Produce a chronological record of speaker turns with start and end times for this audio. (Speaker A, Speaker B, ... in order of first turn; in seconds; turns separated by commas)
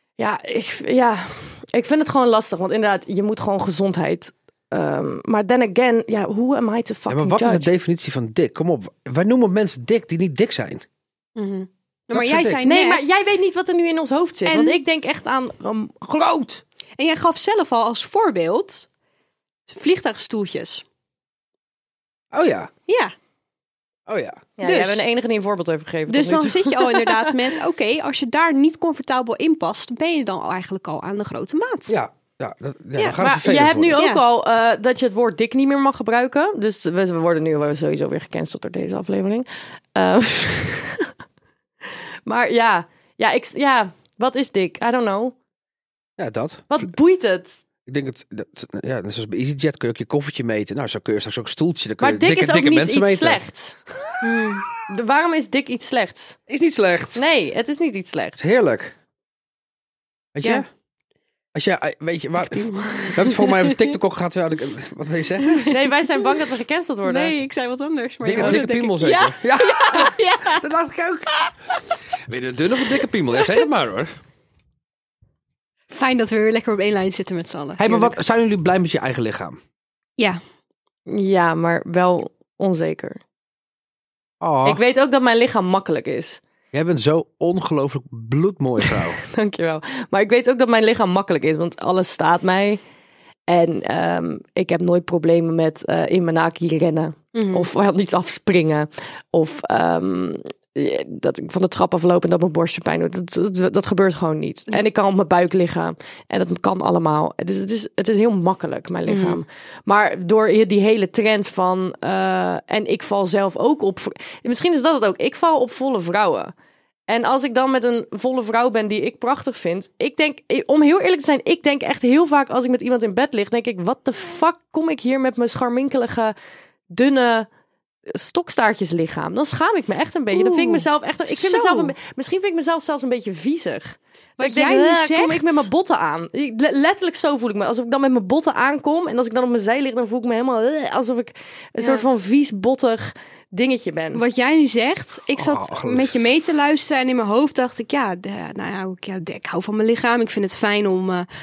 Speaker A: 0.2-7.7, Speaker B: 7.1-10.8, Speaker C: 11.4-13.1, Speaker B: 12.1-12.6, Speaker A: 12.6-16.6, Speaker C: 14.5-14.8, Speaker C: 17.0-18.9, Speaker C: 19.7-20.8, Speaker B: 22.3-22.7, Speaker C: 22.9-23.1, Speaker B: 24.1-24.4, Speaker A: 24.6-27.3, Speaker C: 24.6-25.1, Speaker C: 26.1-31.9, Speaker B: 31.9-34.0, Speaker A: 33.2-41.1, Speaker C: 34.0-34.2, Speaker A: 42.3-45.4, Speaker B: 46.2-46.8, Speaker A: 46.7-47.6, Speaker B: 47.9-53.4, Speaker A: 52.0-53.8, Speaker C: 54.2-54.7, Speaker A: 54.9-56.4, Speaker B: 56.5-57.2, Speaker A: 57.1-58.5, Speaker B: 58.4-59.0, Speaker B: 60.4-60.7, Speaker B: 61.5-65.8, Speaker C: 62.5-64.0, Speaker C: 65.5-65.7, Speaker A: 65.7-67.3, Speaker C: 67.0-70.7, Speaker B: 68.2-71.3, Speaker C: 71.3-72.0, Speaker B: 72.3-74.1, Speaker C: 73.3-73.6, Speaker C: 75.9-78.2, Speaker B: 77.8-79.6, Speaker A: 81.1-83.2, Speaker B: 84.4-84.8, Speaker A: 84.7-86.4, Speaker B: 86.7-89.2, Speaker A: 89.3-92.8, Speaker A: 93.5-116.5, Speaker C: 97.3-97.7, Speaker C: 109.1-109.4, Speaker A: 117.1-126.3, Speaker A: 126.9-127.5, Speaker A: 128.1-144.2, Speaker C: 130.3-131.9, Speaker C: 134.4-135.7, Speaker C: 144.1-151.3, Speaker B: 145.4-146.2